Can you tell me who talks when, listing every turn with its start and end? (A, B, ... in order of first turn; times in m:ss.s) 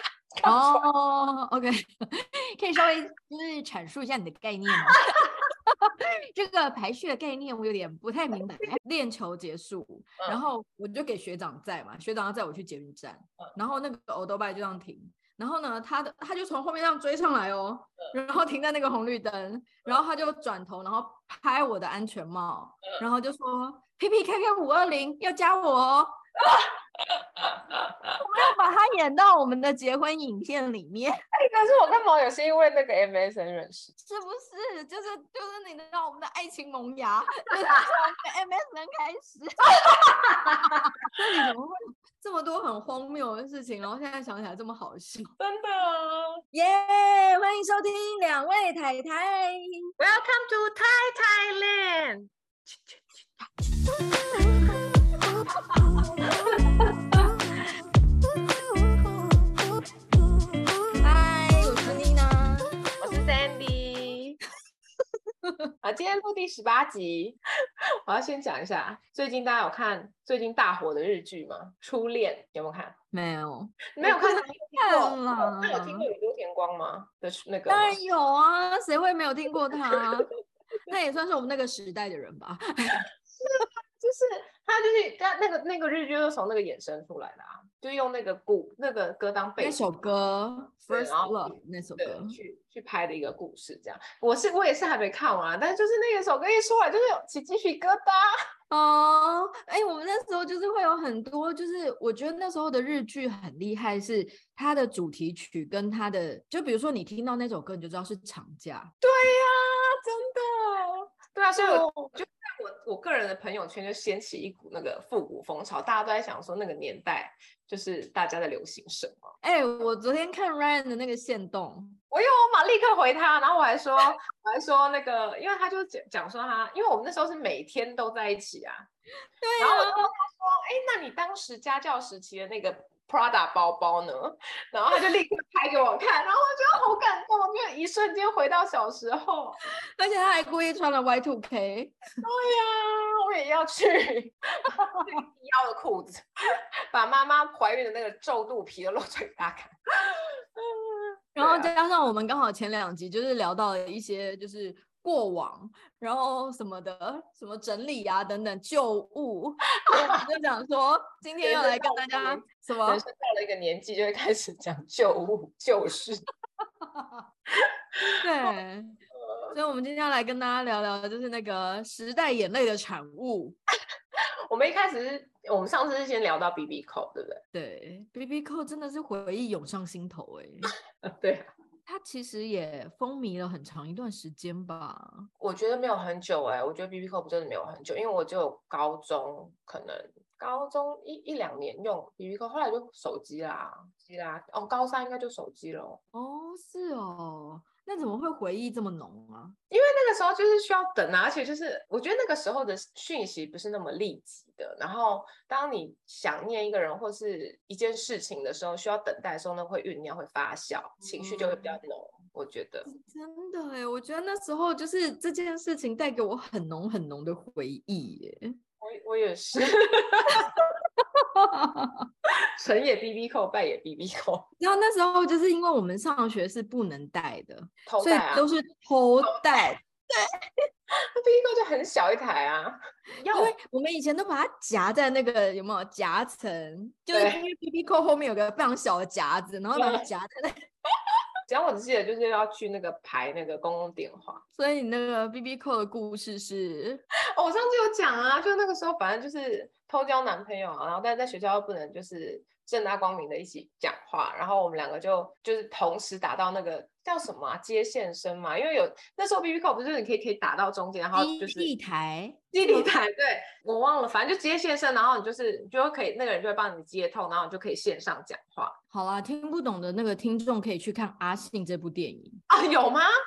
0:00.4-0:00.8 A
0:00.4-0:26.2 B
0:26.5-0:28.2 A
0:28.2-0:31.2 B
0:31.3-0:33.9 A
0:34.0-0:45.3 B
0:37.5-0:37.9 A
0:39.7-0:41.1 A
0:45.4-0:46.4 A
0:46.5-0:49.9 B
0:50.0-0:53.0 A
1:01.0-1:02.8 B
1:03.0-1:04.4 A
1:05.4-1:05.7 B
1:05.8-1:07.4 A
1:08.0-1:12.9 A
1:13.1-1:16.1 B
1:13.9-1:18.0 A
1:17.7-1:20.3 B
1:20.9-1:23.0 B
1:23.4-1:29.8 A
1:29.6-1:32.4 B
1:30.9-1:38.3 A
1:38.7-1:48.9 B
1:49.0-1:59.3 A
1:51.5-1:52.1 B
1:59.4-2:02.0 B
2:02.1-2:08.9 A
2:09.4-2:10.1 B
2:09.6-2:19.6 A
2:20.0-2:21.9 B
2:22.2-2:31.7 A
2:31.4-2:43.0 B
2:39.9-2:40.2 A
2:41.4-2:46.2 A
2:46.8-2:47.2 B
2:48.0-2:49.0 B
2:49.2-2:49.5 A
2:49.5-2:53.6 B
2:54.5-2:57.4 A
2:57.5-3:00.7 B
3:01.0-3:01.5 A
3:01.8-3:05.3 B
3:05.4-3:16.0 A
3:16.1-3:19.6 B
3:19.7-3:32.9 A
3:31.0-3:31.8 B
3:32.8-3:38.6 B
3:38.8-3:40.6 A
3:40.4-3:42.1 B
3:42.3-3:44.5 A
3:44.6-3:50.3 B
3:47.9-3:48.5 A
3:49.2-3:49.6 A
3:50.9-3:53.5 A
3:53.3-4:00.6 B
3:57.1-3:57.4 A
3:59.7-4:00.1 A
4:01.5-4:04.4 A
4:04.6-4:07.0 B
4:07.4-4:21.7 A
4:21.1-4:22.9 B
4:22.5-4:28.8 A
4:28.9-4:32.4 B
4:32.5-4:33.1 A